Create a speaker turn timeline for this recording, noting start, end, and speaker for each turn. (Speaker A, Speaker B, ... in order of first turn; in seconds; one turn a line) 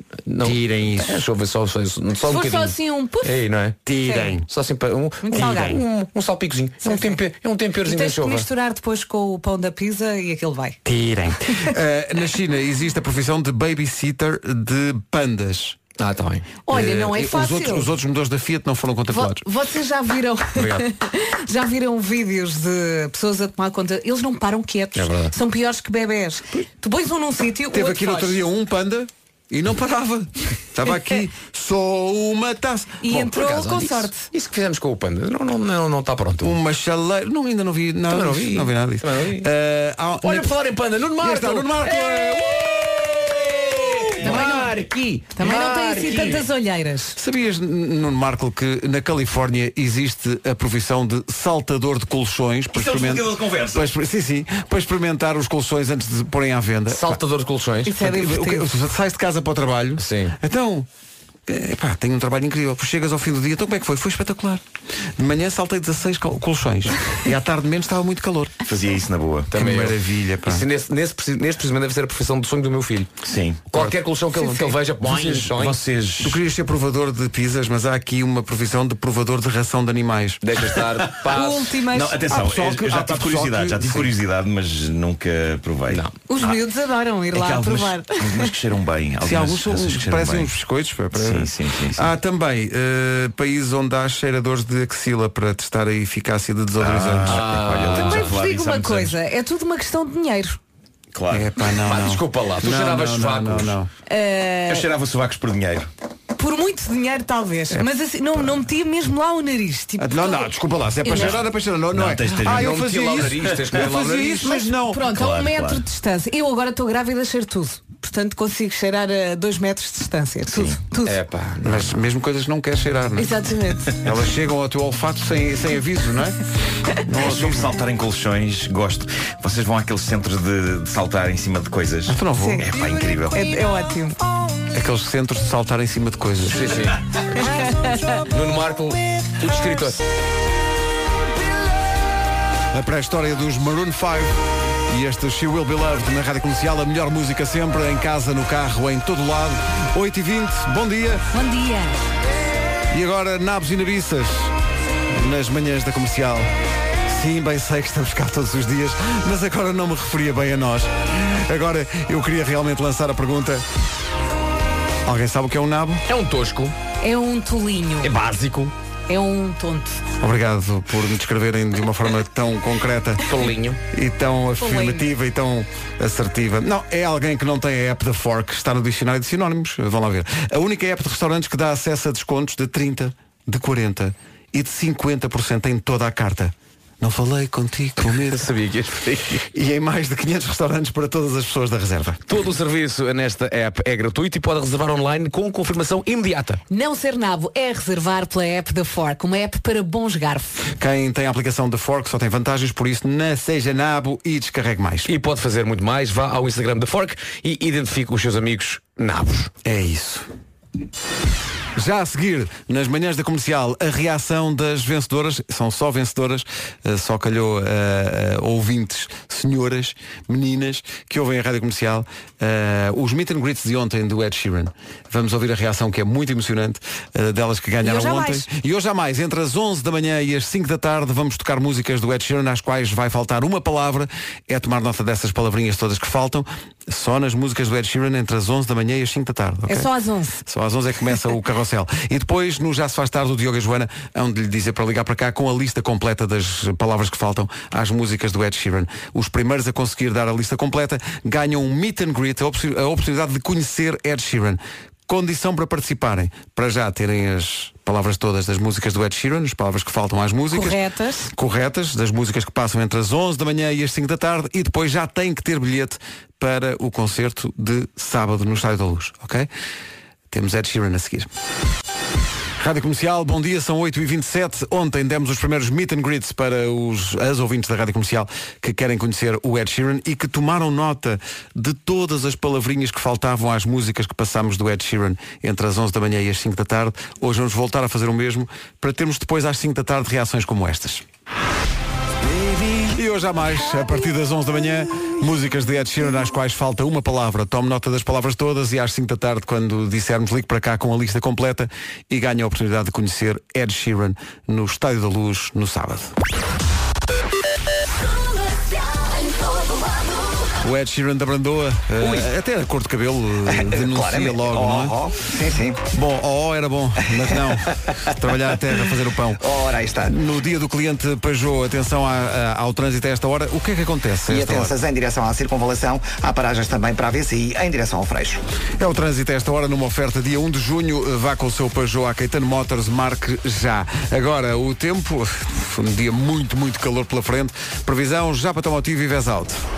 Speaker A: 0.2-3.8
Speaker B: 0.4-1.2
Speaker C: 2.2-3.4
Speaker B: 3.9-4.5
Speaker C: 4.0-4.3
Speaker A: 4.5-8.5
Speaker C: 5.2-5.8
Speaker C: 6.8-7.2
Speaker C: 7.8-10.8
Speaker B: 10.8-15.8
Speaker A: 16.0-16.5
Speaker C: 16.6-17.9
Speaker B: 16.7-19.4
Speaker C: 19.1-28.4
Speaker B: 20.5-20.9
Speaker A: 24.9-25.3
Speaker B: 27.7-33.3
Speaker C: 33.0-34.3
Speaker A: 33.2-36.5
Speaker B: 36.4-40.5
Speaker A: 38.1-39.5
Speaker A: 40.2-46.5
Speaker B: 41.2-43.1
Speaker B: 43.8-44.6
Speaker C: 44.2-44.7
Speaker C: 45.3-47.2
Speaker B: 45.4-46.0
Speaker B: 47.2-57.2
Speaker D: 52.7-53.9
Speaker A: 56.9-57.9
Speaker C: 57.9-58.6
Speaker B: 57.9-60.9
Speaker A: 60.0-60.3
Speaker B: 61.5-64.6
Speaker B: 65.2-68.6
Speaker D: 68.7-69.5
Speaker A: 69.5-73.1
Speaker B: 69.5-70.6
Speaker D: 73.2-73.6
Speaker A: 73.7-75.8
Speaker C: 74.3-74.7
Speaker D: 75.0-76.4
Speaker B: 76.2-80.4
Speaker A: 80.4-81.7
Speaker D: 81.3-86.6
Speaker C: 81.3-82.2
Speaker B: 82.3-84.1
Speaker C: 86.3-88.5
Speaker D: 87.3-90.5
Speaker B: 89.2-97.4
Speaker D: 91.1-92.1
Speaker D: 96.8-99.2
Speaker A: 97.2-98.3
Speaker C: 97.9-100.6
Speaker D: 101.1-101.5
Speaker B: 101.3-103.9
Speaker A: 101.8-103.8
Speaker C: 104.1-104.9
Speaker D: 104.7-105.9
Speaker C: 106.4-110.5
Speaker B: 110.0-115.0
Speaker C: 111.0-111.4
Speaker D: 111.9-113.6
Speaker A: 112.3-114.5
Speaker C: 114.1-121.2
Speaker D: 115.0-115.8
Speaker D: 120.5-120.8
Speaker A: 121.0-121.8
Speaker B: 121.6-123.4
Speaker C: 123.2-124.0
Speaker B: 124.0-126.4
Speaker B: 127.0-127.7
Speaker D: 127.2-133.4
Speaker B: 132.1-132.6
Speaker C: 132.4-132.7
Speaker C: 133.3-134.2
Speaker B: 134.7-136.8
Speaker A: 136.4-137.0
Speaker C: 137.3-138.2
Speaker A: 138.3-140.0
Speaker B: 142.7-151.2
Speaker C: 151.3-152.0
Speaker B: 152.9-154.5
Speaker B: 155.1-156.5
Speaker B: 157.1-163.6
Speaker B: 165.0-166.0
Speaker A: 166.1-166.7
Speaker C: 167.0-168.1
Speaker A: 168.0-168.7
Speaker C: 169.1-170.0
Speaker B: 170.2-173.3
Speaker A: 173.2-173.8
Speaker B: 173.9-188.5
Speaker C: 174.6-175.1
Speaker A: 188.0-189.4
Speaker B: 189.4-192.2
Speaker A: 192.3-196.6
Speaker C: 196.7-200.7
Speaker B: 200.8-205.1
Speaker A: 205.1-209.5
Speaker B: 209.6-210.2
Speaker B: 211.7-239.9
Speaker C: 227.8-228.5
Speaker C: 239.7-240.4
Speaker B: 240.4-260.8
Speaker C: 260.5-261.3
Speaker B: 261.3-269.5
Speaker B: 270.3-271.3
Speaker B: 272.6-291.0
Speaker B: 292.3-306.1
Speaker B: 310.6-315.0
Speaker A: 312.0-312.3
Speaker E: 313.4-315.8
Speaker B: 315.9-319.4
Speaker E: 319.4-320.1
Speaker B: 320.0-324.8
Speaker E: 324.3-328.4
Speaker B: 328.8-339.6